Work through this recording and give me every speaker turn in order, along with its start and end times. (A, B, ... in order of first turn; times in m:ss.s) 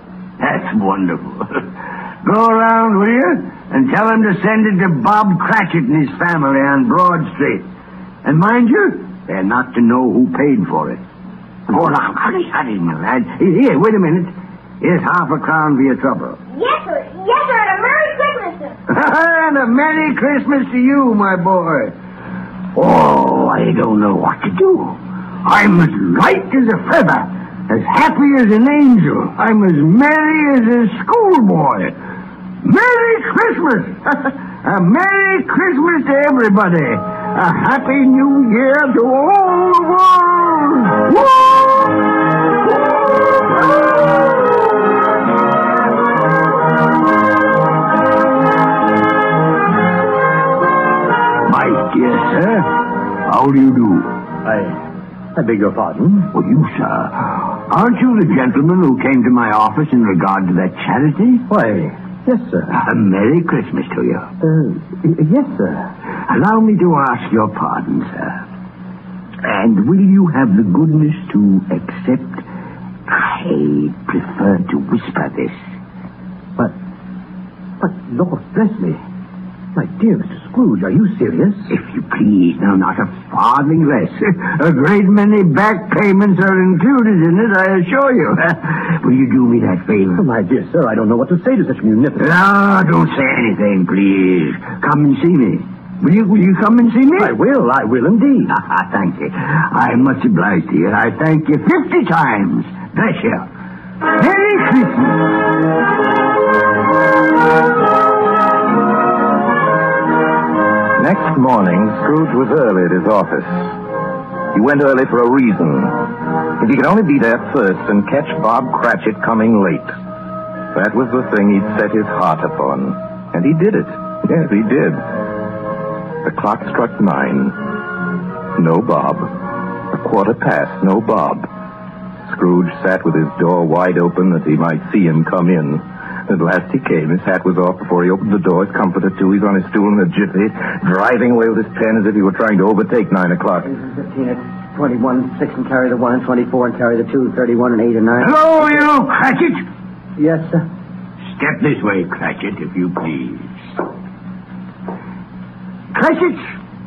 0:00.4-0:01.6 A
0:02.2-0:07.6 A
0:08.2-0:11.0 A
0:11.7-0:16.4 A
0:16.5-0:18.8 B
0:18.9-0:21.9 A
0:22.7-0:31.9 A
0:32.6-0:41.9 A
0:51.4-0:52.7 A
0:53.2-0:54.1 A
0:55.4-0:56.3 C
0:56.3-1:01.5 A
1:01.5-1:02.7 C
1:02.7-1:04.3 A
1:04.4-1:05.8 C
1:06.1-1:08.4 A
1:09.4-1:12.4 A
1:13.1-1:15.6 A
1:17.8-1:19.0 C
1:19.7-1:21.6 C
1:21.7-1:30.2 A
1:30.2-1:32.3 C
1:32.2-1:37.4 A
1:37.2-1:38.5 C
1:38.5-1:43.5 A
1:44.1-1:45.3 A
1:51.0-1:53.7 D
1:54.5-1:59.9 D
2:00.7-2:05.0 D
2:06.2-2:07.7 D
2:08.6-2:09.3 D
2:09.9-2:11.5 D
2:12.2-2:23.7 D
2:25.0-2:25.7 E
2:26.3-2:27.7 E
2:28.1-2:29.6 A
2:31.3-2:33.5 A
2:35.9-2:36.4 A